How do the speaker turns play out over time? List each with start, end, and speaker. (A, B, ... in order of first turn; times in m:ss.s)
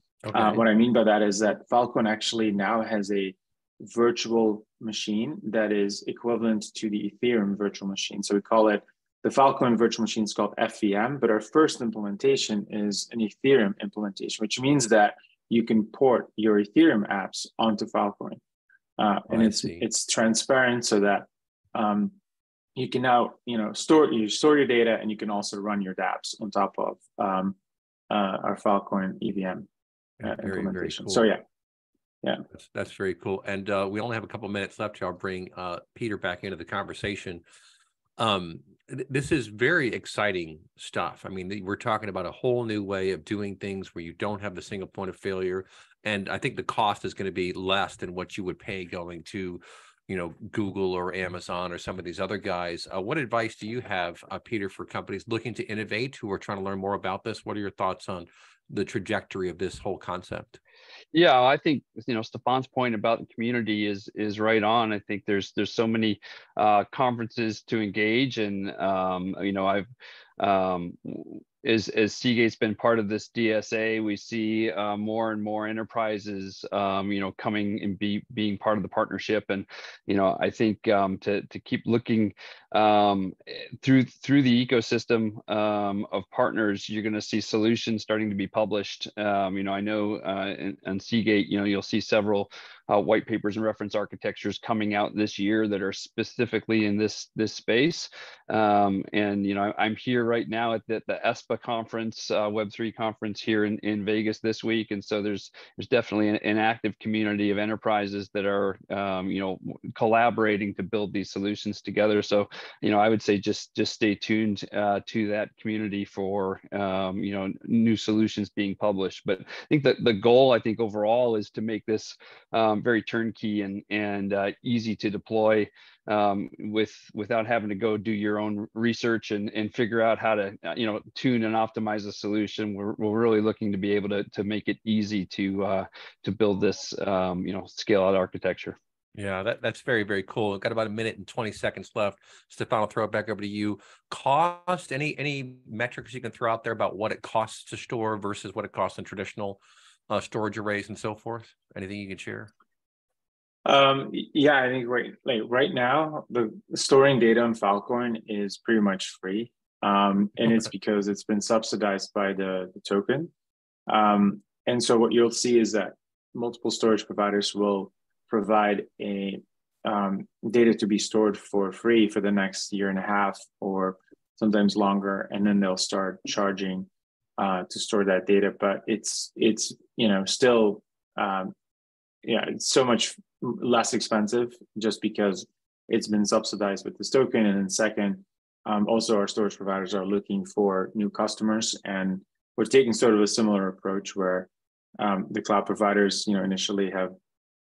0:00.2-0:00.6 A
0:00.3-0:18.4 B
0:19.0-0:22.2 B
0:19.3-0:19.8 A
0:22.8-0:27.6 B
0:28.1-0:29.7 B
0:30.2-0:31.3 A
0:30.2-0:31.4 B
0:32.6-0:37.4 A
0:38.2-1:00.6 A
1:01.1-1:09.9 C
1:10.4-2:18.8 C
2:19.2-2:32.5 A
2:33.7-2:43.3 B
2:43.9-3:01.5 B
3:02.2-3:14.5 B
3:15.0-3:17.1 B